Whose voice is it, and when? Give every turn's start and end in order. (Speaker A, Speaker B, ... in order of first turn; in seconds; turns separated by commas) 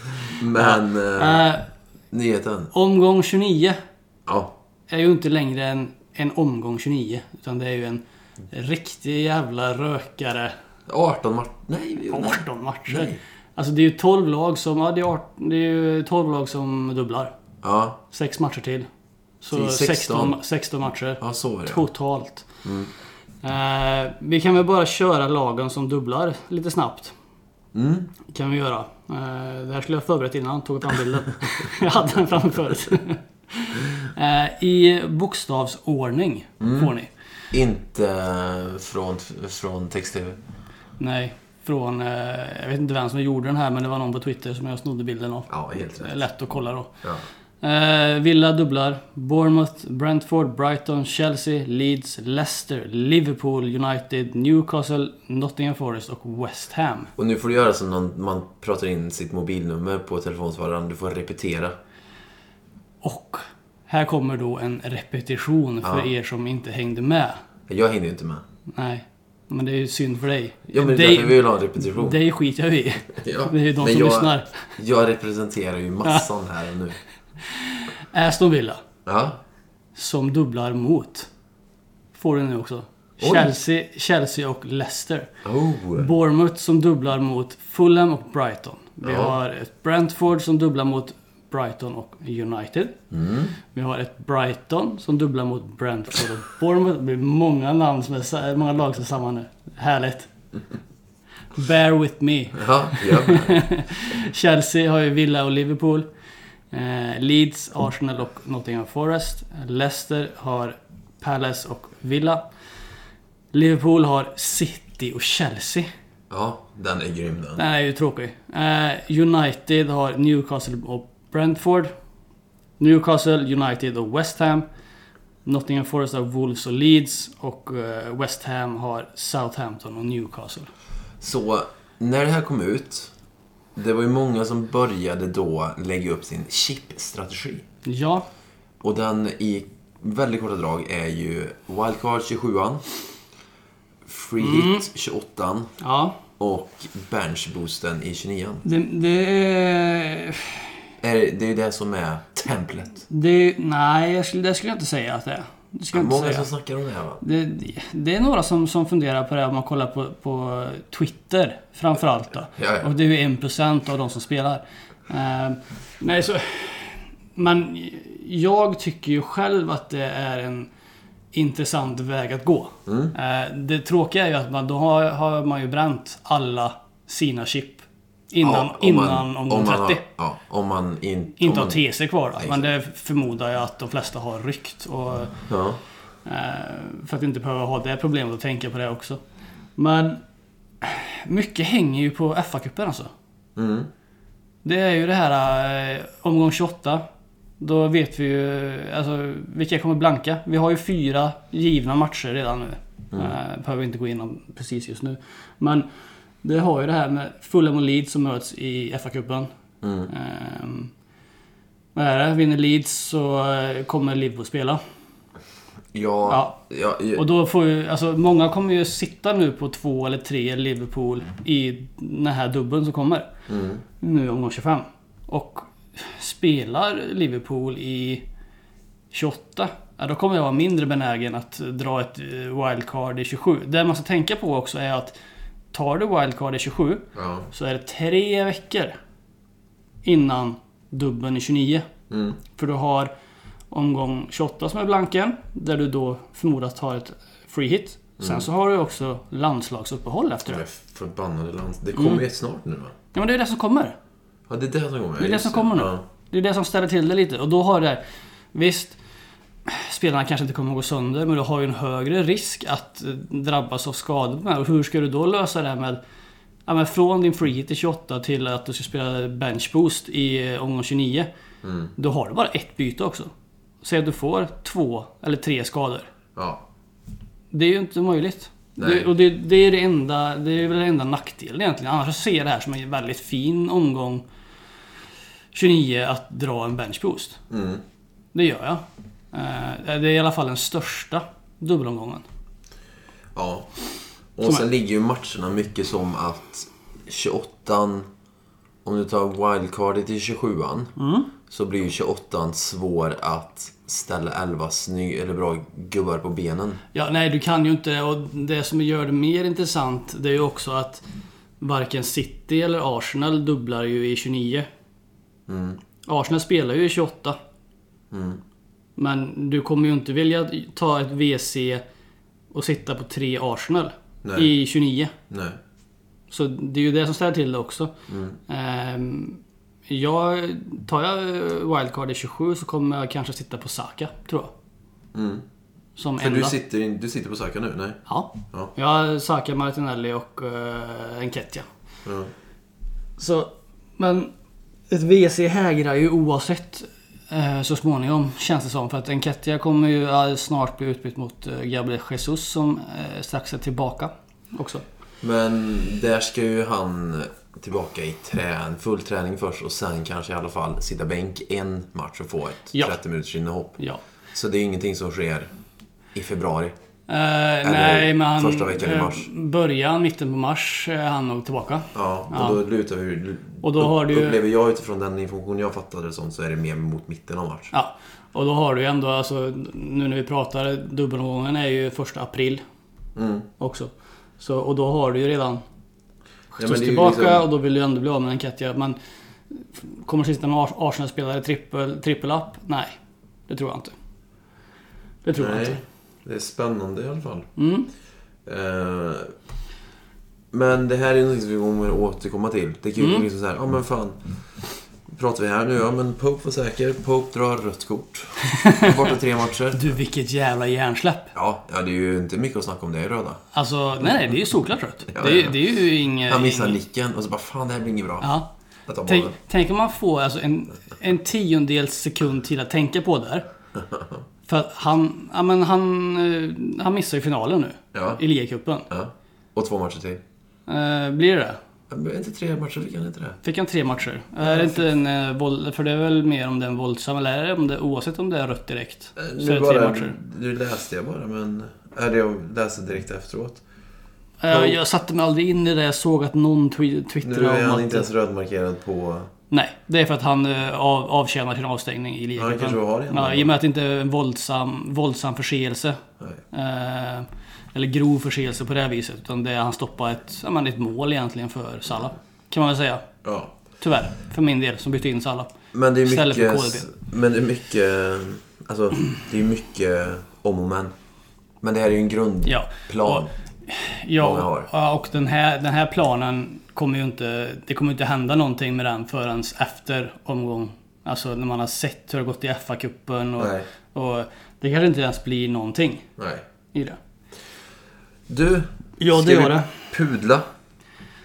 Speaker A: 0.3-1.5, Speaker B: 0.5-1.6, Speaker A: 2.1-2.7, Speaker B: 2.7-3.8, Speaker A: 4.3-4.5, Speaker B: 4.9-10.5, Speaker A: 10.9-13.2, Speaker B: 12.1-17.3, Speaker A: 17.6-18.0, Speaker B: 18.1-18.9, Speaker B: 19.4-22.5, Speaker A: 19.5-20.4, Speaker A: 21.2-21.9, Speaker A: 22.6-22.9, Speaker B: 23.4-27.1, Speaker A: 27.7-28.1, Speaker B: 28.3-37.1, Speaker A: 36.6-36.9, Speaker A: 37.5-40.4, Speaker B: 41.0-46.9, Speaker A: 45.5-46.2, Speaker B: 47.6-57.1, Speaker A: 57.2-61.8, Speaker B: 63.0-67.4, Speaker A: 65.8-66.1, Speaker A: 67.7-68.5, Speaker B: 68.7-74.6, Speaker A: 70.7-72.2, Speaker A: 73.1-77.0, Speaker B: 77.4-78.8, Speaker A: 79.1-79.4, Speaker B: 80.0-81.3, Speaker B: 82.1-85.3, Speaker A: 83.2-83.5, Speaker A: 85.4-86.1, Speaker B: 86.0-93.0, Speaker A: 89.0-89.3, Speaker A: 93.1-93.5, Speaker B: 93.7-100.3, Speaker B: 101.5-106.1, Speaker A: 102.5-103.6, Speaker B: 106.7-112.4, Speaker B: 113.5-115.9, Speaker A: 116.3-117.6, Speaker B: 117.6-121.9, Speaker B: 122.8-124.7, Speaker B: 125.5-130.7, Speaker A: 131.2-133.1, Speaker A: 133.8-137.6, Speaker B: 137.8-138.3, Speaker A: 138.8-142.8, Speaker A: 144.1-145.7, Speaker B: 144.4-144.9, Speaker B: 145.8-146.2, Speaker A: 146.4-148.6, Speaker B: 148.6-150.7, Speaker A: 151.0-153.1, Speaker B: 153.1-156.5, Speaker A: 155.9-157.2, Speaker B: 157.2-170.7, Speaker A: 162.6-162.9, Speaker B: 171.3-180.0, Speaker A: 172.9-173.1, Speaker A: 178.4-181.8, Speaker B: 181.4-185.4, Speaker A: 182.4-182.7, Speaker A: 185.5-185.8, Speaker B: 186.2-189.2, Speaker B: 189.8-190.2, Speaker B: 190.8-193.1, Speaker A: 193.6-193.9, Speaker B: 194.6-197.0, Speaker B: 197.6-205.9, Speaker B: 206.4-209.5, Speaker A: 209.8-210.1, Speaker B: 210.1-210.9, Speaker B: 212.0-214.8, Speaker A: 215.9-217.3, Speaker B: 216.3-216.6, Speaker B: 217.2-223.3, Speaker A: 223.5-223.8, Speaker B: 224.0-228.2, Speaker B: 229.1-235.1, Speaker B: 235.7-239.0, Speaker A: 237.2-237.5, Speaker B: 240.1-241.9, Speaker A: 242.1-242.4, Speaker B: 242.6-243.1, Speaker B: 243.7-250.7, Speaker A: 248.2-248.5, Speaker A: 250.5-252.9, Speaker B: 252.0-252.2, Speaker B: 253.1-254.0, Speaker A: 254.5-256.0, Speaker B: 255.2-258.0, Speaker B: 258.5-259.0, Speaker B: 259.7-266.0, Speaker B: 266.7-271.3, Speaker A: 271.6-271.9, Speaker B: 272.0-273.3, Speaker B: 273.8-276.1, Speaker A: 276.4-276.6, Speaker B: 277.5-284.2, Speaker A: 278.8-279.1, Speaker B: 285.5-287.4, Speaker A: 287.5-287.8, Speaker B: 288.3-292.2, Speaker A: 293.4-293.7, Speaker A: 294.4-298.1, Speaker A: 298.9-300.9, Speaker B: 301.0-301.3, Speaker A: 301.5-306.8, Speaker B: 306.9-311.1, Speaker B: 311.6-314.7, Speaker A: 315.5-315.8, Speaker B: 316.1-317.4, Speaker A: 318.1-318.4, Speaker B: 319.0-321.8, Speaker B: 322.5-325.1, Speaker A: 324.2-324.5, Speaker A: 325.3-325.6, Speaker B: 326.3-327.9, Speaker A: 328.1-328.4, Speaker B: 328.5-334.5, Speaker A: 335.1-335.4, Speaker B: 336.0-336.5, Speaker A: 336.2-338.7, Speaker B: 338.1-341.7, Speaker A: 342.1-342.3, Speaker B: 343.2-344.3, Speaker B: 344.9-354.8, Speaker A: 355.2-363.8, Speaker B: 362.7-363.0, Speaker A: 364.3-365.5, Speaker A: 366.1-366.7, Speaker B: 367.1-372.6, Speaker A: 367.6-369.3, Speaker A: 371.9-377.7, Speaker B: 373.6-374.4, Speaker B: 377.7-382.6, Speaker A: 383.2-383.5, Speaker B: 383.6-385.6, Speaker B: 386.5-389.0, Speaker A: 386.6-387.5, Speaker B: 389.5-392.9, Speaker B: 393.5-393.9, Speaker B: 395.2-395.8, Speaker A: 395.4-397.5, Speaker B: 397.6-397.9, Speaker A: 398.5-399.3, Speaker A: 400.5-404.2, Speaker B: 403.0-403.3, Speaker A: 405.1-410.0, Speaker B: 408.4-409.1, Speaker B: 409.7-411.3, Speaker A: 411.3-413.4, Speaker B: 413.5-416.8, Speaker A: 415.1-418.3, Speaker B: 418.2-418.5, Speaker A: 418.9-419.4, Speaker B: 419.1-423.4, Speaker A: 423.8-424.2, Speaker B: 424.5-428.9, Speaker A: 427.9-428.2, Speaker A: 428.9-430.2, Speaker B: 430.7-431.6, Speaker A: 431.9-433.4, Speaker B: 433.4-440.1, Speaker A: 434.4-434.8, Speaker A: 439.2-443.6, Speaker B: 444.4-448.1, Speaker A: 444.5-444.8, Speaker A: 447.2-449.3, Speaker B: 449.5-456.0, Speaker A: 452.4-453.6, Speaker B: 456.5-463.1, Speaker A: 463.2-463.6, Speaker B: 463.8-465.5, Speaker A: 465.7-470.9, Speaker B: 466.1-466.9, Speaker A: 471.6-473.3, Speaker B: 472.5-486.1, Speaker A: 474.2-474.7, Speaker A: 483.4-483.7, Speaker A: 486.2-486.4, Speaker B: 486.7-487.0, Speaker A: 488.3-490.4, Speaker B: 489.0-489.9